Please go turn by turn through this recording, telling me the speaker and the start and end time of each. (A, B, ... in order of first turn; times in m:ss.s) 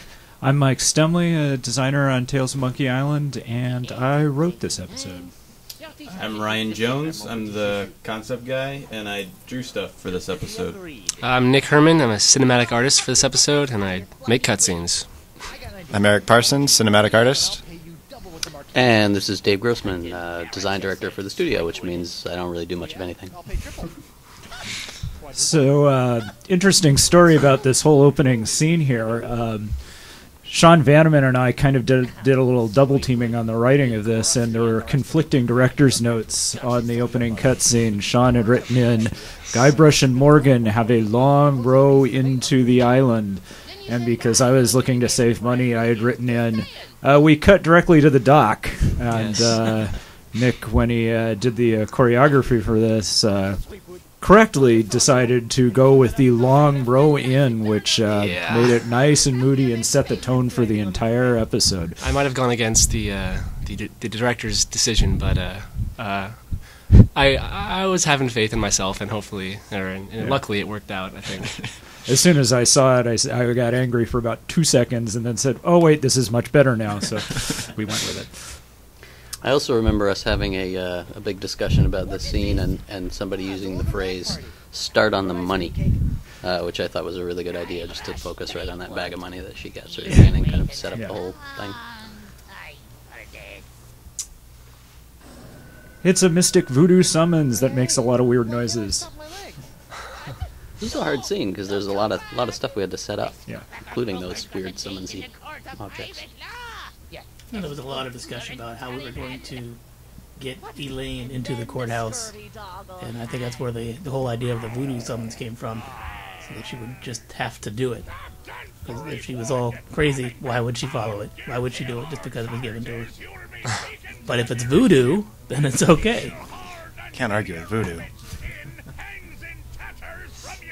0:00.4-0:05.4 A
0:06.1-0:10.9 B
0:11.2-0:15.2 C
0:15.9-0:17.7 D
0:18.7-0:23.4 E
0:25.3-1:02.0 A
0:49.1-0:49.8 C
0:58.1-0:58.8 C
1:02.0-1:12.0 C
1:12.0-1:18.6 A
1:19.4-1:31.9 E
1:30.9-1:31.2 A
1:36.0-1:39.1 A
1:40.8-1:46.2 E
1:47.5-2:03.2 F
2:04.2-2:06.4 F
2:07.1-2:08.1 D